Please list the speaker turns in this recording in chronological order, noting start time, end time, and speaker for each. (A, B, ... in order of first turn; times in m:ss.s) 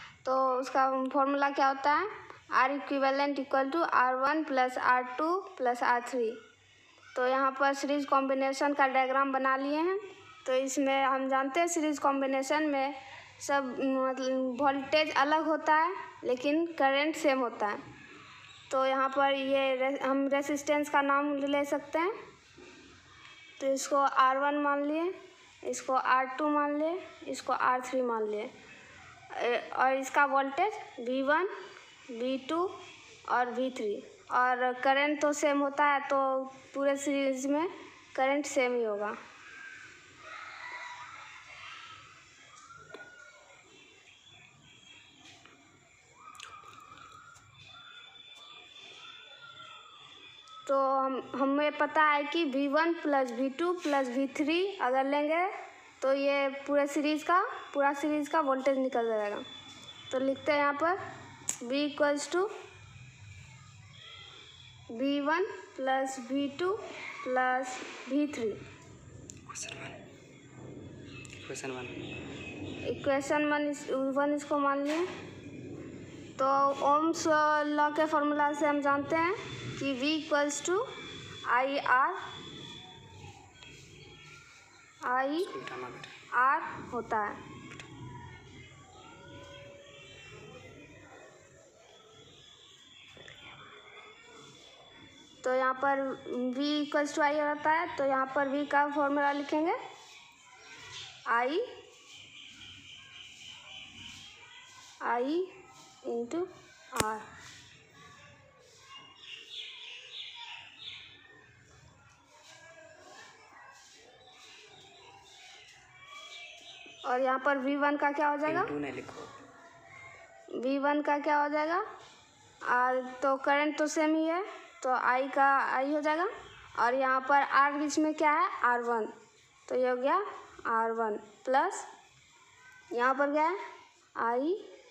0:00.2-0:06.4 A
0:07.2-0:17.8 A
0:18.7-0:22.1 A
0:23.6-0:28.5 A
0:29.3-0:31.5 A
0:32.1-0:32.7 A
0:33.3-0:39.2 A
0:50.6-0:59.5 A
1:00.1-1:01.0 A
1:01.6-1:02.5 A
1:04.9-1:08.6 A
1:09.5-1:10.0 B
1:11.4-1:12.0 B
1:12.8-1:15.1 A
1:16.4-1:20.9 A
1:21.4-1:22.2 A
1:25.0-1:25.6 A
1:25.4-1:26.1 B
1:26.3-1:27.4 A
1:35.4-1:39.8 A
1:41.3-1:41.7 A
1:45.0-1:45.5 A
1:46.0-1:47.3 A
1:57.0-1:58.7 A
1:58.4-1:59.3 B
2:00.5-2:01.8 A
2:02.6-2:09.1 A
2:09.7-2:11.9 A
2:12.9-2:13.6 A
2:14.2-2:14.6 A